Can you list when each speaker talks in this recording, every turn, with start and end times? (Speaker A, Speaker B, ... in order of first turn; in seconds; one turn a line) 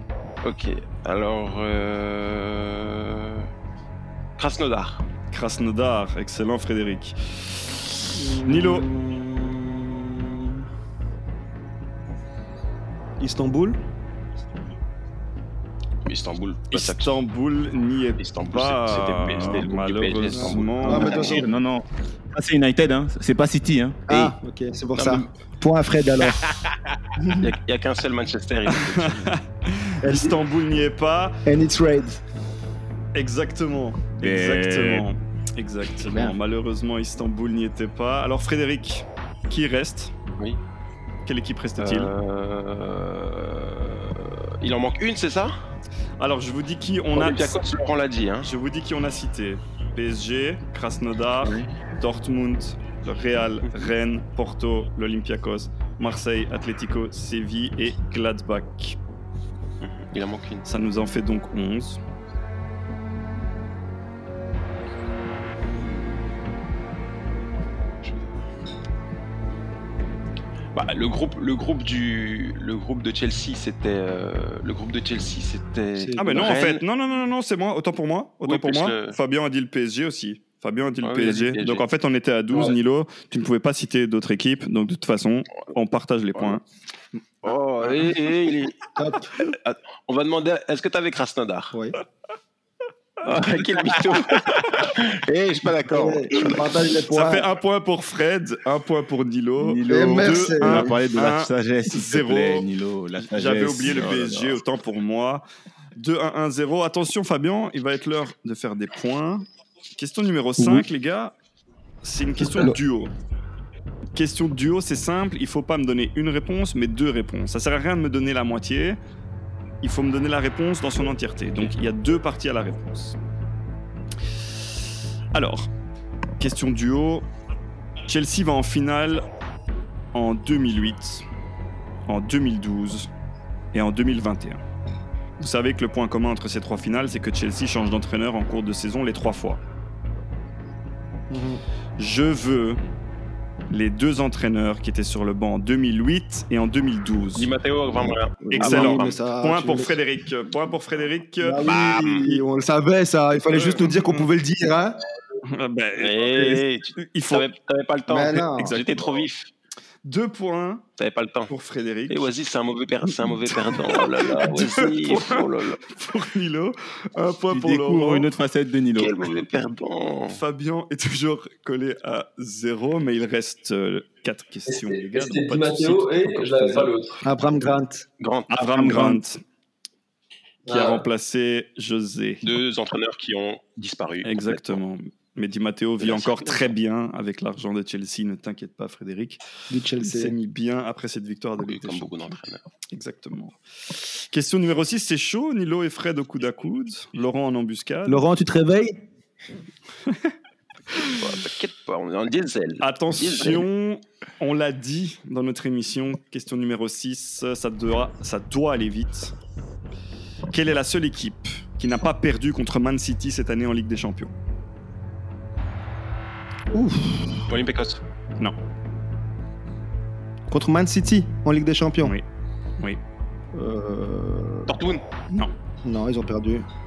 Speaker A: 0.4-3.5
Speaker A: 4.4-5.0
Speaker B: 5.3-7.8
Speaker C: 8.1-10.6
Speaker B: 8.4-8.9
Speaker C: 13.2-13.8
Speaker A: 16.1-17.1
Speaker B: 16.7-21.5
Speaker A: 18.2-21.5
Speaker C: 20.4-21.5
Speaker D: 20.9-24.4
Speaker C: 24.1-26.5
Speaker A: 24.9-25.3
Speaker C: 27.2-27.5
Speaker A: 27.3-29.3
Speaker B: 28.7-31.4
Speaker C: 30.0-30.4
Speaker C: 31.5-32.2
Speaker B: 33.1-40.1
Speaker D: 34.2-35.1
Speaker C: 36.0-36.4
Speaker B: 41.2-42.1
Speaker A: 41.8-45.5
Speaker B: 46.2-47.6
Speaker A: 47.1-48.5
Speaker B: 48.4-59.0
Speaker A: 59.8-60.6
Speaker B: 60.6-62.0
Speaker A: 70.7-76.8
Speaker C: 76.0-76.5
Speaker B: 76.2-86.6
Speaker A: 78.5-79.2
Speaker A: 81.0-81.8
Speaker A: 87.4-88.9
Speaker C: 89.0-89.3
Speaker A: 89.5-91.7
Speaker C: 91.7-92.0
Speaker A: 93.2-96.7
Speaker C: 95.9-97.5
Speaker B: 97.1-102.7
Speaker D: 99.6-104.6
Speaker C: 99.9-101.0
Speaker B: 103.3-105.5
Speaker B: 106.0-111.3
Speaker C: 110.6-110.8
Speaker B: 112.0-113.1
Speaker C: 112.4-112.8
Speaker B: 114.2-119.0
Speaker B: 119.8-123.2
Speaker B: 125.3-125.7
Speaker B: 126.4-127.3
Speaker B: 128.1-129.2
Speaker B: 130.1-131.2
Speaker B: 132.1-133.1
Speaker B: 133.7-134.6
Speaker B: 135.4-139.6
Speaker C: 141.3-141.6
Speaker B: 142.0-142.8
Speaker B: 143.7-147.5
Speaker A: 147.4-149.2
Speaker B: 148.5-151.6
Speaker C: 148.5-150.0
Speaker C: 151.4-155.0
Speaker A: 151.6-152.4
Speaker B: 153.6-154.2
Speaker B: 155.4-157.5
Speaker A: 156.0-159.5
Speaker C: 158.1-158.8
Speaker B: 158.5-159.2
Speaker B: 160.1-160.8
Speaker A: 161.0-161.5
Speaker B: 161.5-162.3
Speaker A: 162.1-165.8
Speaker B: 163.2-168.3
Speaker D: 167.5-169.2
Speaker A: 169.0-170.4
Speaker B: 170.3-176.9
Speaker E: 174.7-177.2
Speaker C: 177.2-178.1
Speaker A: 178.2-178.9
Speaker B: 178.5-179.4
Speaker E: 180.7-181.0
Speaker B: 180.7-182.5
Speaker A: 182.4-184.8
Speaker B: 184.2-189.4
Speaker A: 186.0-186.7
Speaker C: 189.7-190.3
Speaker B: 190.0-192.2
Speaker A: 191.6-192.6
Speaker B: 192.9-198.2
Speaker C: 198.1-199.0
Speaker B: 200.9-201.2
Speaker A: 201.0-203.7
Speaker B: 202.8-209.3
Speaker B: 210.5-214.3
Speaker C: 216.7-217.5
Speaker A: 217.5-218.0
Speaker C: 220.5-222.2
Speaker C: 223.5-224.7
Speaker A: 224.7-225.0
Speaker C: 225.8-226.7